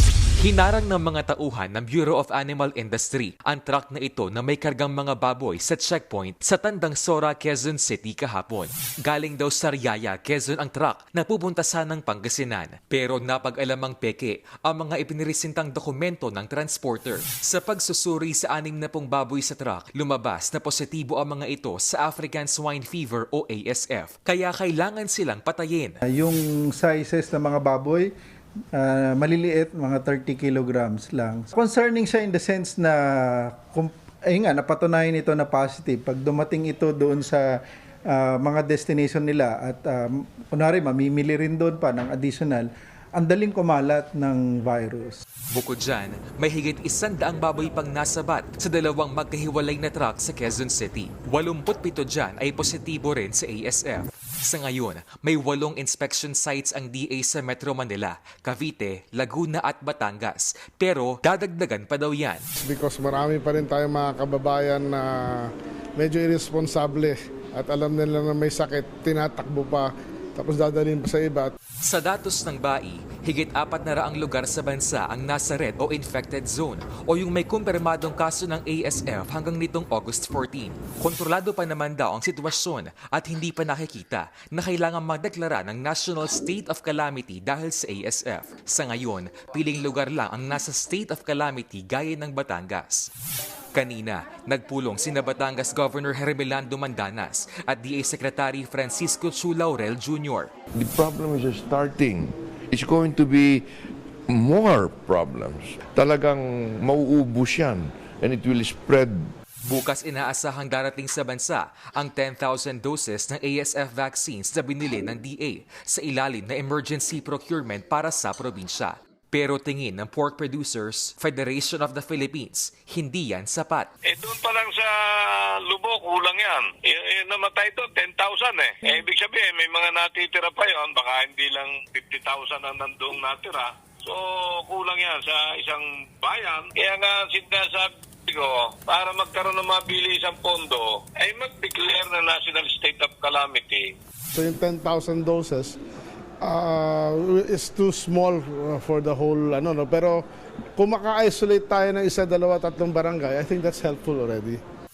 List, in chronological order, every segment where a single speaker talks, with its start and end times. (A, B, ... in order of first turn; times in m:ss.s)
0:00.4-0:26.0 A
0:26.1-0:28.1 B
0:28.7-0:37.5 B
0:38.1-0:45.2 B
0:45.5-1:02.4 A
1:02.6-1:11.5 C
1:11.8-1:33.1 A
1:33.7-1:40.5 A
1:40.7-1:49.3 D
1:49.6-2:03.9 A
2:04.1-2:23.9 E
2:24.3-2:25.8 C
2:26.4-2:30.2 C
2:30.8-2:34.6 C